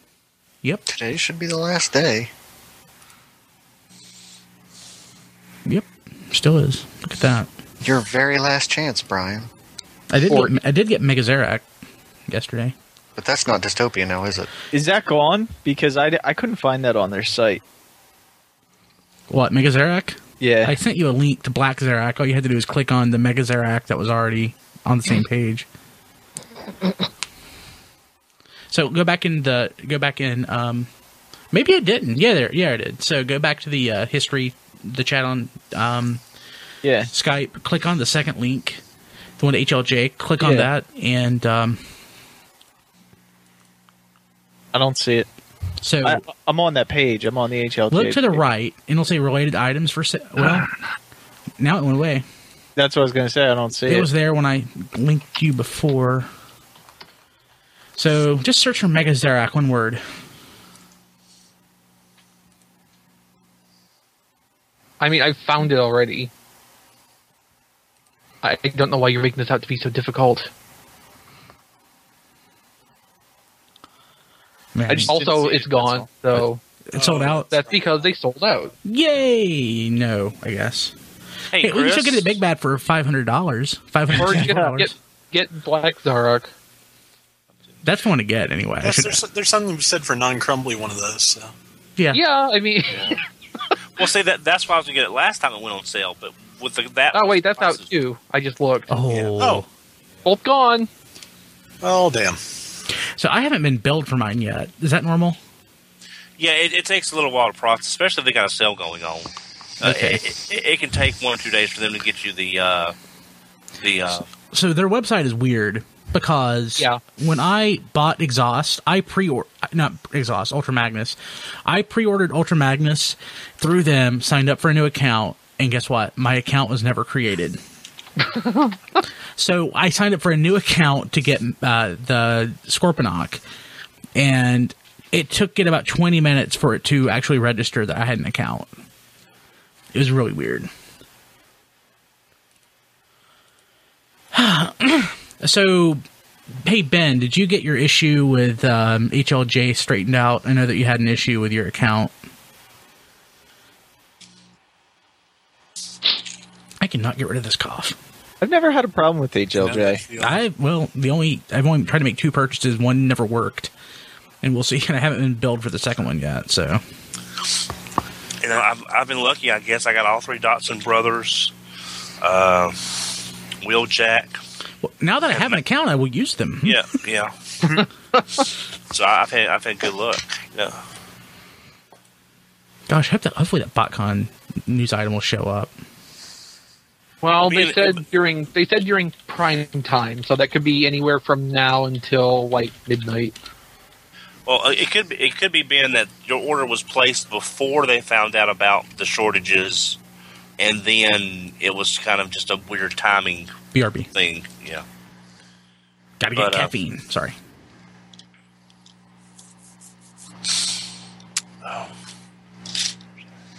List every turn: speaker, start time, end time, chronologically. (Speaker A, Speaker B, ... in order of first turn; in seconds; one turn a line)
Speaker A: 0.9-2.3
Speaker B: 5.7-7.5
Speaker A: 7.8-9.5
Speaker B: 10.1-11.7
Speaker C: 10.3-10.5
Speaker B: 12.3-12.7
Speaker A: 13.2-14.5
Speaker D: 14.7-17.6
Speaker B: 19.3-25.6
Speaker D: 20.4-20.8
Speaker B: 28.7-30.9
Speaker B: 31.5-36.2
Speaker D: 36.8-37.1
Speaker B: 37.1-38.8
Speaker B: 39.4-41.8
Speaker D: 40.4-40.7
Speaker D: 44.7-45.3
Speaker B: 45.8-46.2
Speaker D: 46.0-48.4
Speaker B: 47.9-50.7
Speaker B: 51.6-52.2
Speaker D: 52.8-54.1
Speaker B: 53.9-56.3
Speaker B: 58.0-60.0
Speaker C: 65.0-66.3
Speaker C: 68.4-70.5
Speaker B: 74.7-75.2
Speaker C: 74.9-76.6
Speaker D: 75.1-76.0
Speaker B: 76.3-77.5
Speaker E: 76.9-77.5
Speaker C: 77.5-78.7
Speaker B: 78.8-80.9
Speaker F: 81.5-82.3
Speaker B: 81.6-84.9
Speaker C: 84.1-86.5
Speaker D: 84.3-84.7
Speaker B: 87.8-89.2
Speaker E: 88.8-91.5
Speaker C: 92.1-93.2
Speaker F: 94.0-97.9
Speaker C: 97.1-99.0
Speaker B: 98.9-99.7
Speaker F: 99.1-99.6
Speaker C: 100.2-100.9
Speaker E: 101.8-102.4
Speaker B: 103.2-105.4
Speaker F: 106.4-112.9
Speaker B: 109.8-110.2
Speaker F: 113.8-114.3
Speaker B: 114.5-127.6
Speaker C: 128.3-128.7
Speaker B: 129.3-133.4
Speaker B: 134.2-138.7
Speaker B: 139.9-140.7
Speaker B: 144.3-146.0
Speaker B: 146.6-152.1
Speaker B: 156.8-157.9
Speaker D: 158.4-160.0
Speaker E: 159.6-160.4
Speaker B: 160.2-163.7
Speaker B: 164.4-166.8
Speaker F: 168.4-171.5
Speaker F: 172.2-173.0
Speaker F: 173.6-174.4
Speaker B: 174.8-176.8
Speaker F: 175.3-175.6
Speaker F: 176.6-177.3
Speaker F: 178.9-180.8
Speaker B: 182.9-185.7
Speaker C: 187.2-193.3
Speaker F: 187.4-188.0
Speaker F: 194.4-200.0
Speaker F: 200.6-203.6
Speaker B: 203.7-204.1
Speaker F: 204.1-204.8
Speaker B: 206.2-207.3
Speaker F: 206.3-206.7
Speaker F: 211.6-211.9